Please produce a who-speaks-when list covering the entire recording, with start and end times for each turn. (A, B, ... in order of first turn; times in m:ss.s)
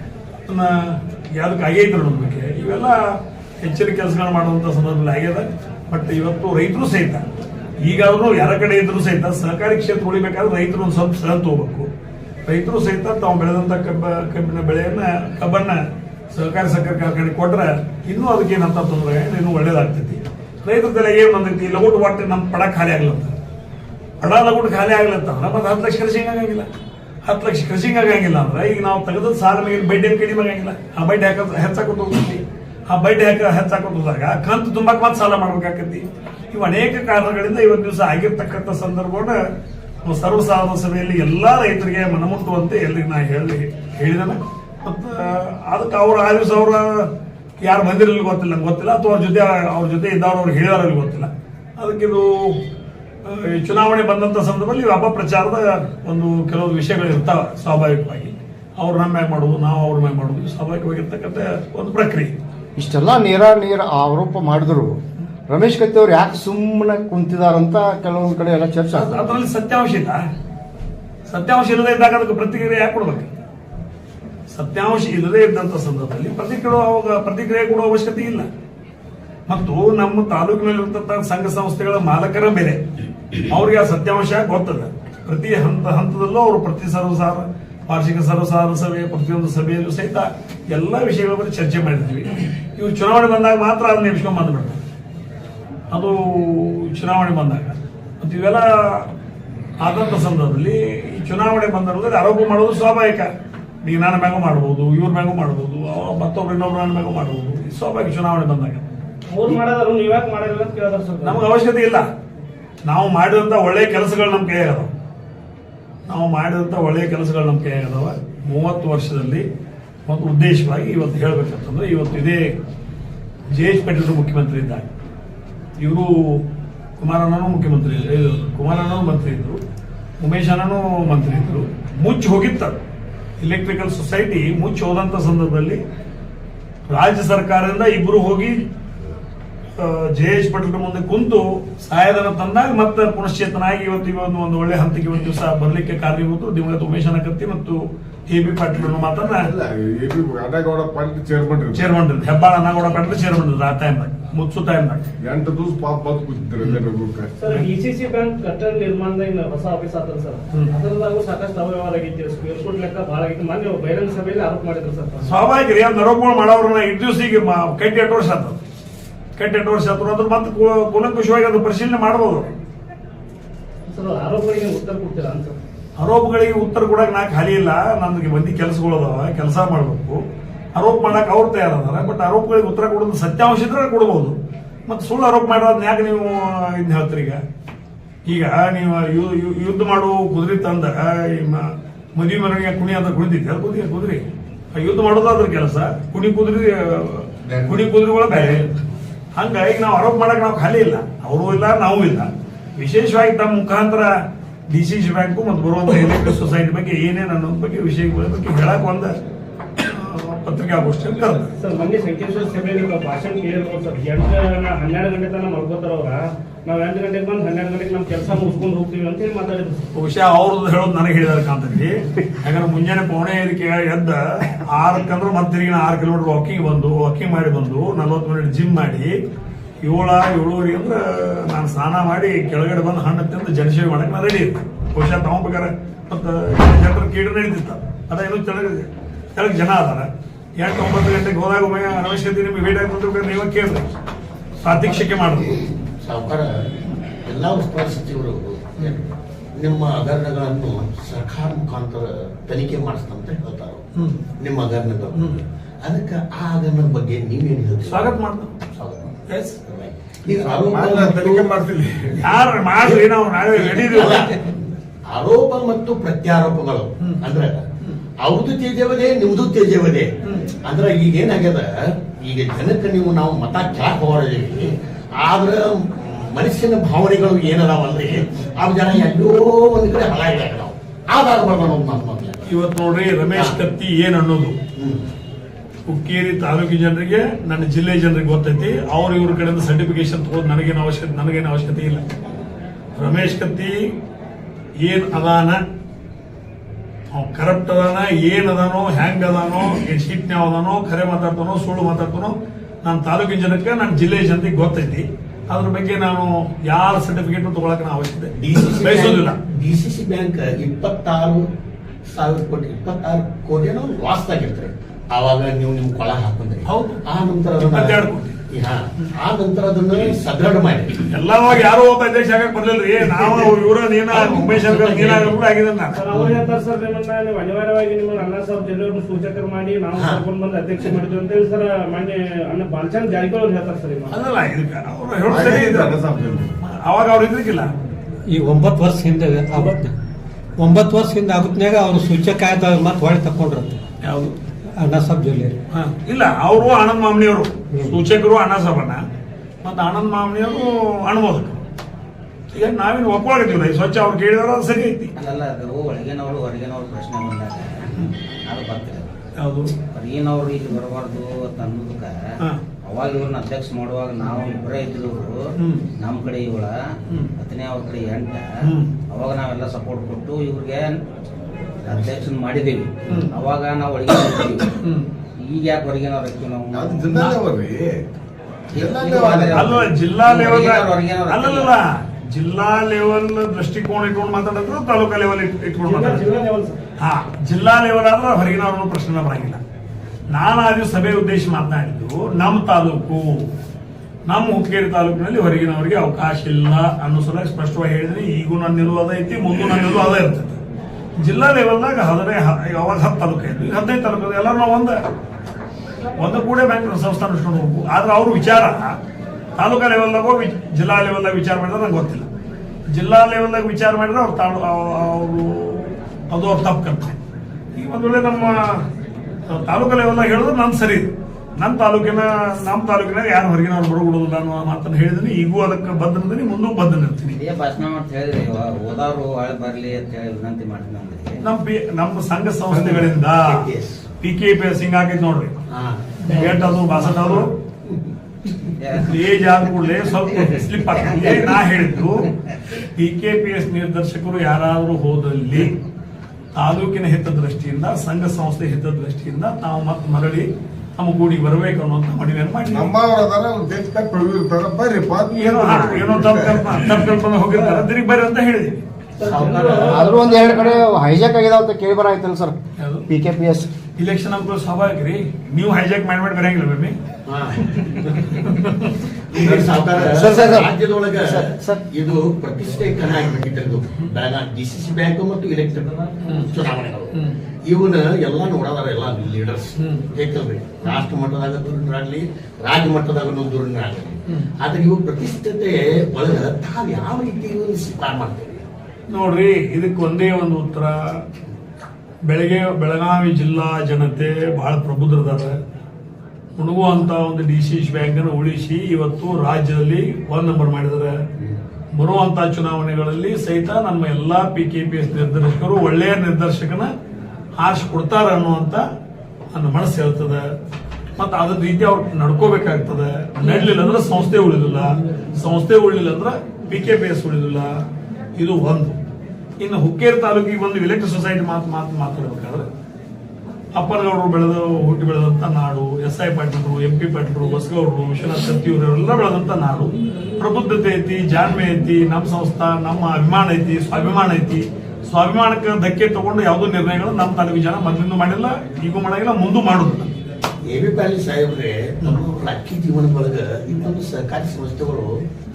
0:00.5-0:07.3 A
0:07.8-0:11.9 A
0:12.5-0:15.8 A
0:16.3-0:23.3 A
0:24.2-0:26.7 A
0:27.2-0:39.4 A
0:40.0-0:52.6 A
0:53.2-1:02.4 A
1:02.8-1:05.0 B
1:05.5-1:09.4 B
1:08.9-1:10.2 A
1:11.3-1:13.3 A
1:14.5-1:18.5 A
1:19.5-1:22.8 A
1:23.5-1:34.8 A
1:35.9-1:39.1 A
1:39.8-1:43.3 A
1:43.8-1:48.9 A
1:49.3-1:51.5 C
1:51.2-1:52.1 A
1:52.8-1:54.9 A
1:56.1-1:59.5 A
2:00.1-2:02.5 A
2:03.5-2:04.9 A
2:05.8-2:06.4 A
2:07.0-2:09.6 A
2:10.2-2:12.8 A
2:13.4-2:15.8 A
2:16.9-2:18.6 A
2:19.8-2:29.5 A
2:28.8-2:31.9 D
2:31.7-2:35.0 A
2:35.2-2:37.3 D
2:37.4-2:45.4 C
2:45.2-2:48.6 A
2:49.4-2:52.5 A
2:53.9-2:55.6 C
2:56.0-3:00.2 A
3:00.8-3:04.4 A
3:04.9-3:07.4 A
3:08.3-3:18.7 A
3:17.5-3:18.6 D
3:19.4-3:24.1 A
3:24.7-3:29.1 A
3:29.8-3:31.5 A
3:31.6-3:39.9 C
3:39.9-3:49.2 A
3:49.8-4:03.8 A
4:04.6-4:05.6 A
4:04.7-4:06.7 E
4:07.2-4:13.8 E
4:14.0-4:14.2 A
4:14.4-4:18.1 E
4:15.1-4:15.4 A
4:17.8-4:18.7 A
4:18.8-4:19.1 E
4:19.3-4:19.6 A
4:19.7-4:21.5 E
4:20.4-4:23.0 D
4:22.2-4:24.4 A
4:23.5-4:27.7 E
4:27.0-4:27.3 A
4:28.2-4:30.1 E
4:30.6-4:42.4 E
4:42.5-4:44.6 A
4:44.8-4:45.1 E
4:45.9-4:52.0 A
4:53.0-4:53.9 A
4:54.8-4:55.6 A
4:57.1-5:09.4 A
5:08.4-5:11.5 E
5:12.1-5:21.0 E
5:16.6-5:17.0 A
5:17.6-5:18.4 A
5:21.0-5:26.0 A
5:24.1-5:25.3 E
5:25.9-5:34.2 C
5:30.0-5:30.2 E
5:34.1-5:35.9 A
5:35.3-5:36.6 D
5:36.6-5:37.7 A
5:38.3-5:39.9 F
5:40.6-5:43.8 F
5:44.0-5:44.4 A
5:44.8-5:45.6 F
5:45.7-5:49.0 A
5:49.6-5:51.6 A
5:52.5-5:55.1 A
5:55.2-5:59.1 G
5:59.4-5:59.7 A
5:59.9-6:02.2 G
6:02.8-6:05.4 G
6:05.6-6:05.8 A
6:06.0-6:06.8 G
6:07.4-6:08.5 G
6:08.6-6:08.9 A
6:09.1-6:11.0 G
6:11.8-6:14.7 G
6:13.1-6:13.4 A
6:14.8-6:15.1 A
6:15.4-6:17.1 G
6:16.7-6:18.0 D
6:18.7-6:21.7 G
6:18.7-6:19.9 D
6:19.5-6:26.3 A
6:25.8-6:26.8 C
6:27.0-6:29.6 A
6:30.3-6:33.5 A
6:34.3-6:40.6 A
6:41.2-6:45.0 A
6:46.2-6:49.0 A
6:49.6-6:52.3 A
6:52.9-6:57.2 A
6:57.8-6:58.8 A
6:59.5-7:07.4 A
7:07.3-7:11.4 G
7:11.4-7:13.7 A
7:12.7-7:14.0 E
7:14.2-7:15.5 A
7:15.7-7:18.0 E
7:16.2-7:17.5 A
7:18.8-7:19.2 G
7:19.1-7:25.8 A
7:20.8-7:21.5 G
7:26.5-7:32.9 A
7:32.7-7:37.1 D
7:35.4-7:38.8 A
7:39.2-7:40.8 C
7:39.2-7:40.0 E
7:39.9-7:42.6 B
7:42.8-7:43.0 A
7:43.1-7:43.7 B
7:44.0-7:47.0 A
7:47.3-7:48.2 E
7:47.8-7:49.7 A
7:49.3-8:08.6 E
7:50.1-7:51.8 B
7:56.3-7:56.5 A
7:57.1-7:57.4 A
7:59.8-8:00.1 A
8:09.1-8:11.0 A
8:12.3-8:15.6 A
8:16.6-8:21.2 A
8:22.0-8:26.9 A
8:27.6-8:28.8 A
8:29.5-8:30.4 A
8:31.2-8:37.8 A
8:38.4-8:39.0 A
8:39.6-8:42.7 A
8:43.8-9:00.1 A
9:00.7-9:05.1 E